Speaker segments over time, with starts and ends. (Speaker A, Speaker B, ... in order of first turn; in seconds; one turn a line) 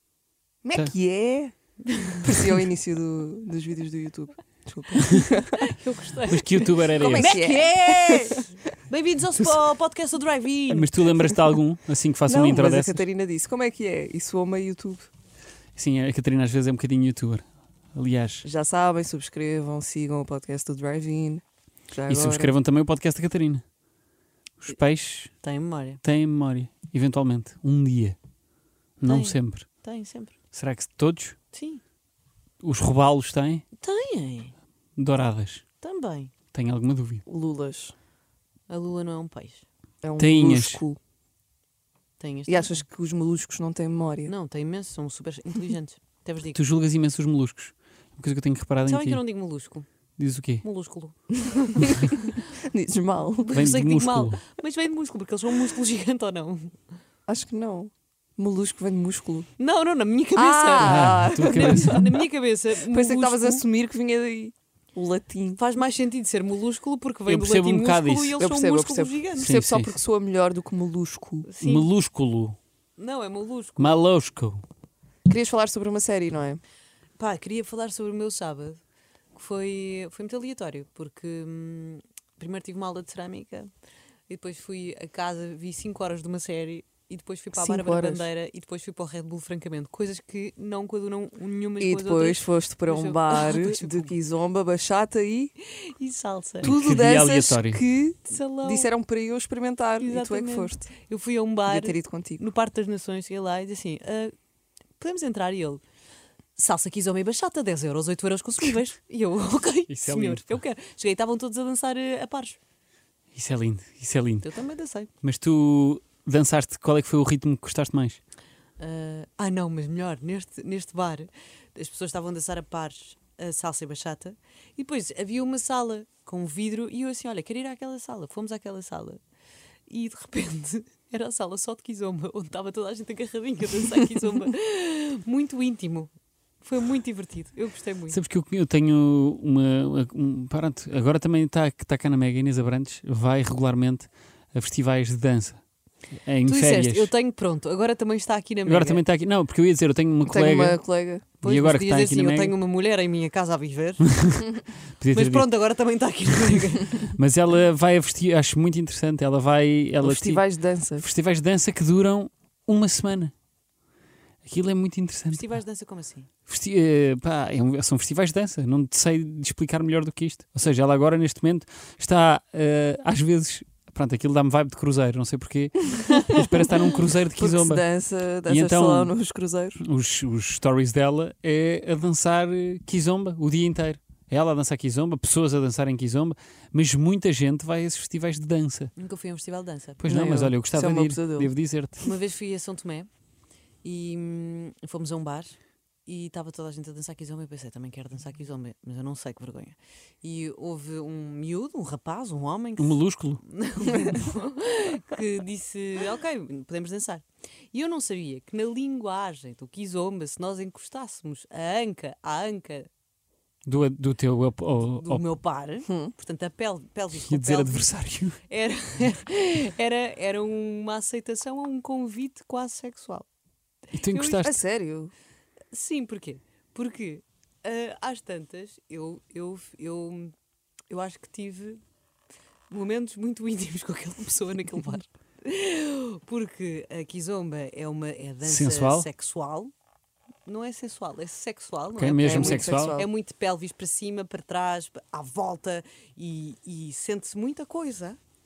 Speaker A: 0.6-1.5
Speaker A: 2.2-5.7
Speaker B: 5.6-11.3
Speaker C: 6.3-7.4
Speaker A: 6.9-8.5
Speaker C: 10.7-13.0
Speaker A: 12.2-15.1
Speaker C: 15.7-18.4
Speaker A: 18.4-22.5
Speaker C: 22.1-23.6
Speaker C: 24.6-25.3
Speaker B: 25.4-26.0
Speaker C: 26.0-28.2
Speaker C: 29.0-29.6
Speaker B: 29.0-30.3
Speaker C: 30.5-31.4
Speaker B: 31.5-31.8
Speaker C: 32.6-33.6
Speaker B: 33.8-34.5
Speaker C: 35.0-35.6
Speaker B: 35.8-36.3
Speaker C: 36.5-37.2
Speaker A: 37.2-37.9
Speaker B: 38.7-39.6
Speaker A: 40.0-41.0
Speaker C: 40.2-40.8
Speaker B: 42.2-42.8
Speaker A: 42.5-44.3
Speaker B: 44.2-46.6
Speaker C: 46.5-49.2
Speaker B: 48.8-49.9
Speaker C: 50.2-50.6
Speaker B: 50.6-52.4
Speaker A: 51.6-53.6
Speaker B: 53.4-56.8
Speaker C: 53.5-54.4
Speaker A: 57.3-59.5
Speaker B: 59.6-63.6
Speaker A: 60.3-62.2
Speaker C: 60.8-62.0
Speaker A: 62.8-65.6
Speaker B: 65.5-69.5
Speaker C: 67.3-68.4
Speaker A: 68.4-71.5
Speaker C: 69.3-70.0
Speaker B: 71.4-71.9
Speaker C: 71.6-72.6
Speaker B: 73.0-74.0
Speaker C: 73.8-74.6
Speaker A: 75.3-76.6
Speaker B: 77.2-78.8
Speaker B: 79.3-83.7
Speaker B: 84.3-94.1
Speaker A: 87.5-88.3
Speaker A: 91.8-95.5
Speaker B: 95.7-96.7
Speaker C: 96.6-97.8
Speaker A: 96.6-100.9
Speaker B: 98.3-98.9
Speaker B: 100.0-104.3
Speaker A: 101.7-102.4
Speaker B: 105.0-105.8
Speaker B: 106.5-112.6
Speaker C: 109.9-110.6
Speaker C: 113.3-114.5
Speaker B: 114.4-115.1
Speaker C: 115.2-118.2
Speaker B: 118.8-129.2
Speaker B: 129.9-138.2
Speaker C: 138.1-147.1
Speaker B: 146.4-149.0
Speaker C: 148.7-150.8
Speaker A: 150.2-151.4
Speaker C: 151.4-152.5
Speaker B: 151.4-154.2
Speaker C: 154.1-155.5
Speaker B: 155.1-157.1
Speaker C: 157.2-163.3
Speaker A: 160.0-161.1
Speaker C: 164.4-165.5
Speaker B: 165.3-166.3
Speaker C: 166.5-177.9
Speaker A: 177.3-179.8
Speaker C: 178.5-179.1
Speaker C: 179.8-188.9
Speaker B: 188.9-190.0
Speaker C: 190.0-192.1
Speaker A: 190.1-191.5
Speaker B: 192.0-193.1
Speaker B: 193.8-212.9
Speaker C: 202.8-203.4
Speaker C: 213.6-215.2
Speaker B: 215.0-217.9
Speaker A: 215.8-216.1
Speaker C: 217.1-218.4
Speaker B: 218.5-223.3
Speaker C: 223.9-224.6
Speaker B: 224.1-224.4
Speaker A: 224.4-225.1
Speaker B: 225.7-230.3
Speaker B: 230.9-231.8
Speaker B: 232.7-239.7
Speaker C: 238.4-239.1
Speaker B: 240.4-248.2
Speaker C: 241.9-243.0
Speaker A: 242.2-243.1